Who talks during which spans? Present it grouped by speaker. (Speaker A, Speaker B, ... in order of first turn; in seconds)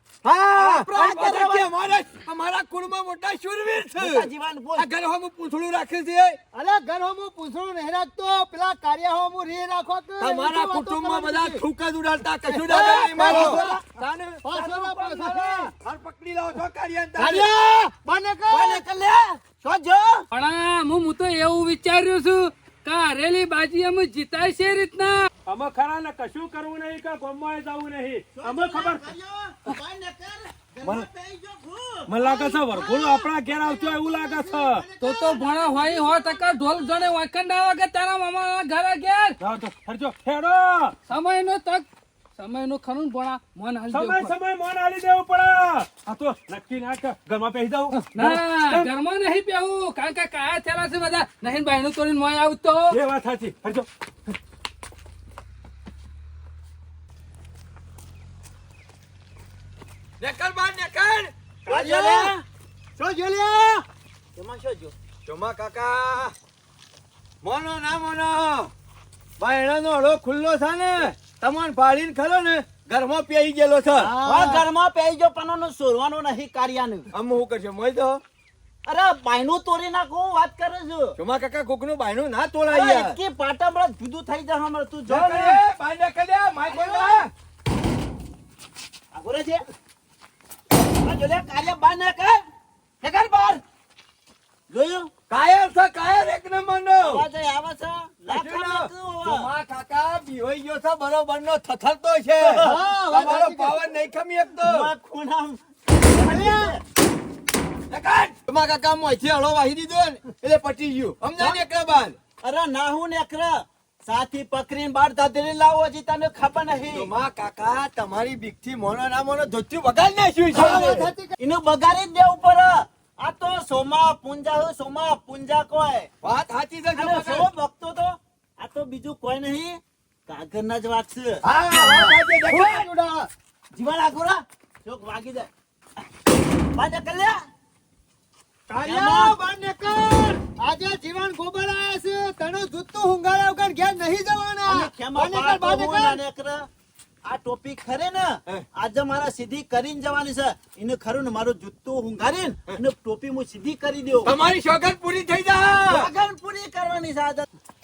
Speaker A: 0.2-6.4, 10.2-14.4, 15.2-17.5, 60.2-61.3, 65.2-66.3, 67.4-68.7, 69.4-74.2, 77.1-78.2, 81.2-83.2, 85.1-87.3, 95.3-97.2, 98.3-104.9, 107.9-112.2, 116.9-121.1, 126.2-127.5, 131.4-132.9, 154.2-156.1
Speaker B: 0.6-1.7, 4.0-4.9, 12.5-13.9, 14.5-15.3, 17.3-17.9, 18.5-20.3, 28.4-32.1, 61.7-62.4, 64.3-65.0, 74.2-77.1, 78.9-81.2, 82.7-85.6, 86.7-87.2, 89.1-89.7, 91.0-92.4, 93.0-93.6, 94.7-95.1, 97.0-99.5, 102.4-102.8, 104.6-106.8, 112.4-117.1, 120.5-126.1, 126.9-131.4, 133.7-135.5, 136.7-137.4, 138.8-139.3, 144.7-146.7, 147.2-154.4, 155.9-157.5
Speaker C: 6.5-11.6, 12.5-13.8, 14.4-15.7, 17.2-18.8, 32.2-36.9, 61.7-62.3, 63.0-63.8, 74.0-74.7, 102.5-103.8, 106.1-106.8, 120.5-121.3, 131.7-133.3, 138.7-146.2
Speaker D: 20.3-25.3, 35.0-39.4, 41.1-41.9, 42.4-44.3, 47.9-53.0
Speaker E: 25.5-29.1, 32.1-34.9, 39.4-41.0, 43.9-48.9, 52.9-53.9